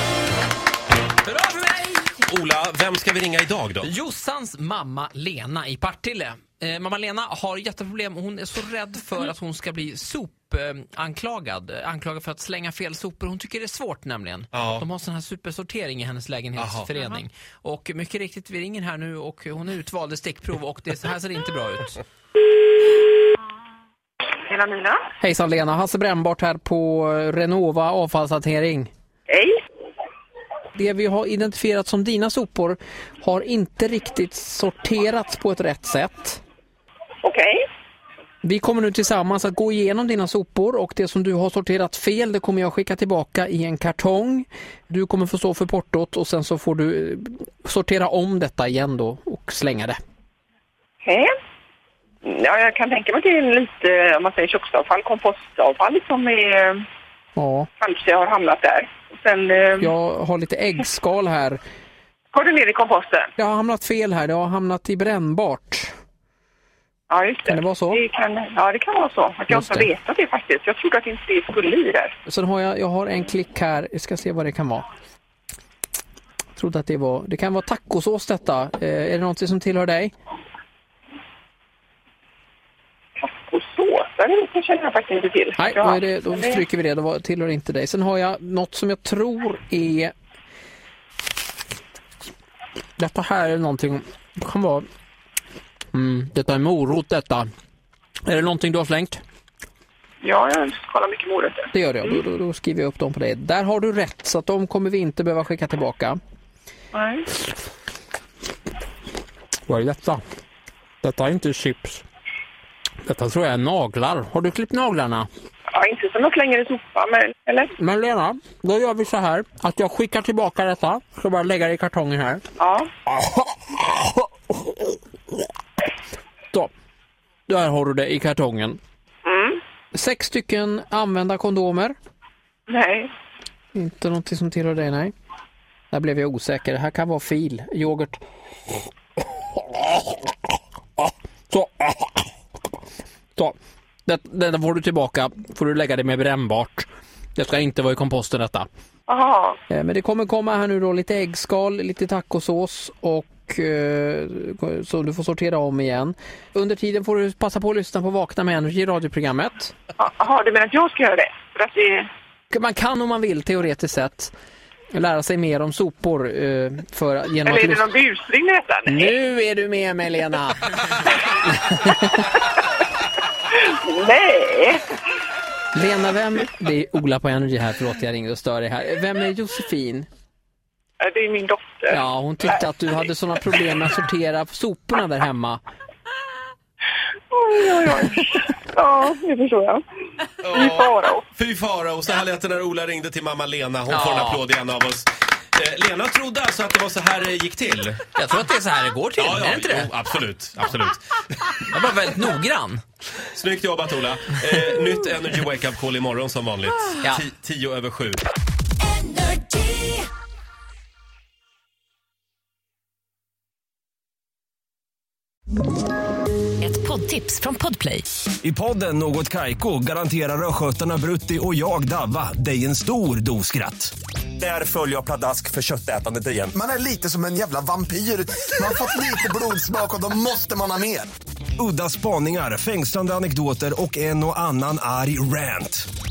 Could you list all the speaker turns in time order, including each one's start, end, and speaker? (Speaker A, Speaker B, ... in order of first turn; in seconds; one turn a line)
Speaker A: 1.2-2.2
Speaker B: 2.2-3.9
Speaker A: 3.8-22.0
Speaker B: 14.5-14.8
Speaker B: 16.6-16.9
Speaker C: 24.4-25.0
Speaker A: 25.2-28.9
Speaker A: 30.7-36.4
Speaker C: 37.2-37.6
Speaker A: 38.4-50.0
Speaker C: 51.0-51.3
Speaker C: 52.2-56.8
Speaker A: 57.4-57.7
Speaker C: 57.8-59.9
Speaker A: 59.8-61.6
Speaker C: 62.3-63.3
Speaker A: 63.4-65.9
Speaker C: 67.1-72.1
Speaker A: 67.5-68.0
Speaker A: 69.5-69.9
Speaker A: 72.3-74.8
Speaker A: 76.6-80.1
Speaker C: 83.2-86.6
Speaker A: 85.6-90.1
Speaker A: 93.0-94.8
Speaker A: 95.9-97.5
Speaker A: 98.2-99.2
Speaker C: 100.2-102.1
Speaker A: 101.7-106.2
Speaker C: 106.9-107.2
Speaker A: 109.7-110.2
Speaker A: 111.0-112.0
Speaker A: 113.0-115.3
Speaker C: 115.7-117.7
Speaker A: 117.8-122.4
Speaker C: 122.6-122.9
Speaker A: 123.1-123.8
Speaker A: 127.5-128.8
Speaker C: 129.2-129.6
Speaker A: 129.9-131.9
Speaker C: 132.7-133.1
Speaker A: 133.7-135.1
Speaker A: 135.9-138.2
Speaker A: 139.7-140.0
Speaker A: 141.5-142.2
Speaker A: 144.1-148.7
Speaker C: 149.1-149.6
Speaker A: 149.7-159.7
Speaker C: 160.0-162.1
Speaker A: 162.5-164.3
Speaker A: 164.9-167.9
Speaker C: 167.4-169.1
Speaker A: 168.9-172.1
Speaker C: 173.5-174.8
Speaker A: 175.7-180.1
Speaker C: 181.0-182.0
Speaker A: 181.9-185.6
Speaker C: 187.3-189.8
Speaker B: 190.4-198.1
Speaker C: 190.5-191.2
Speaker A: 193.9-194.4
Speaker A: 198.2-199.9
Speaker B: 199.2-201.0
Speaker A: 201.6-202.8
Speaker B: 203.3-208.2
Speaker D: 208.9-210.0
Speaker D: 216.6-218.1
Speaker E: 218.4-226.5
Speaker F: 226.5-231.1
Speaker E: 231.6-235.9